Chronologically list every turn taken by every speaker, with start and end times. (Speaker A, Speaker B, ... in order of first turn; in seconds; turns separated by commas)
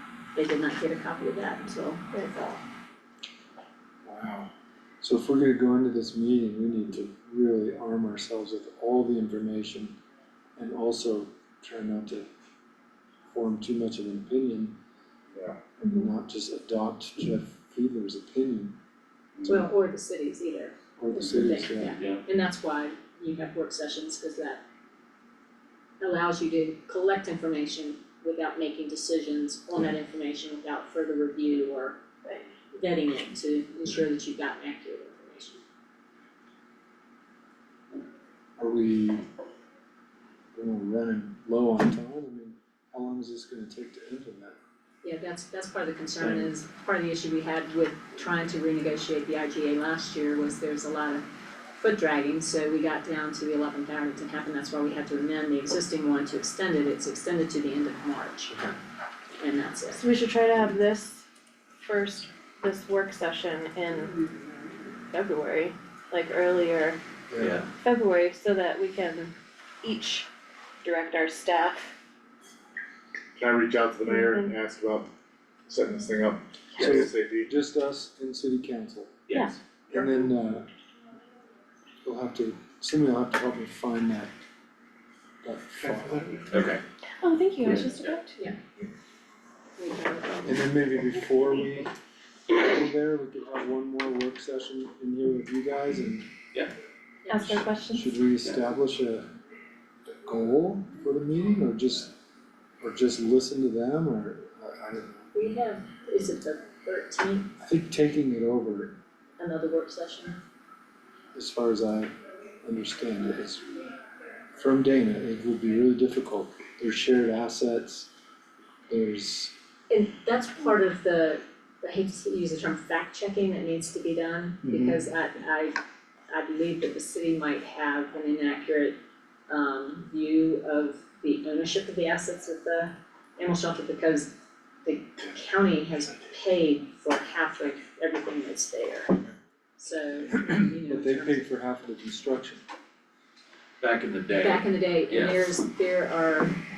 Speaker A: 0.3-2.0, Speaker B: 2.1-2.5, Speaker C: 4.0-4.5, Speaker C: 5.0-10.0, Speaker C: 10.6-12.3, Speaker C: 13.3-14.8, Speaker B: 15.8-16.1, Speaker C: 15.9-18.8, Speaker D: 19.4-19.7, Speaker A: 19.4-24.6, Speaker C: 21.0-22.0, Speaker E: 21.9-22.2, Speaker A: 26.0-32.0, Speaker A: 32.7-35.6, Speaker C: 38.6-39.3, Speaker C: 40.5-44.6, Speaker A: 45.0-51.2, Speaker C: 46.2-46.5, Speaker A: 51.8-58.7, Speaker A: 59.4-60.0, Speaker B: 59.9-61.3, Speaker B: 61.8-64.3, Speaker B: 65.1-67.0, Speaker C: 67.3-67.6, Speaker E: 67.4-67.7, Speaker B: 67.8-70.3, Speaker B: 70.8-71.9, Speaker D: 73.4-75.1, Speaker B: 74.1-74.5, Speaker D: 75.7-77.5, Speaker C: 76.8-79.2, Speaker E: 79.3-79.6, Speaker C: 79.9-80.7, Speaker D: 79.9-80.3, Speaker C: 82.0-84.3, Speaker C: 85.4-86.5, Speaker D: 85.9-86.4, Speaker E: 86.5-86.8, Speaker B: 87.2-88.4, Speaker E: 87.6-88.2, Speaker A: 89.8-90.7, Speaker C: 90.5-91.9, Speaker C: 92.5-96.3, Speaker A: 97.2-97.7, Speaker B: 97.3-98.1, Speaker C: 97.9-99.3, Speaker C: 100.1-102.1, Speaker C: 102.8-105.3, Speaker A: 105.3-107.5, Speaker C: 107.6-109.0, Speaker A: 109.4-110.4, Speaker C: 111.3-113.8, Speaker C: 114.6-118.1, Speaker C: 118.9-119.5, Speaker A: 119.9-129.0, Speaker C: 124.6-125.0, Speaker A: 129.5-134.3, Speaker A: 134.8-139.2, Speaker A: 139.8-141.5, Speaker C: 140.8-142.6, Speaker E: 143.8-145.4, Speaker A: 144.3-146.6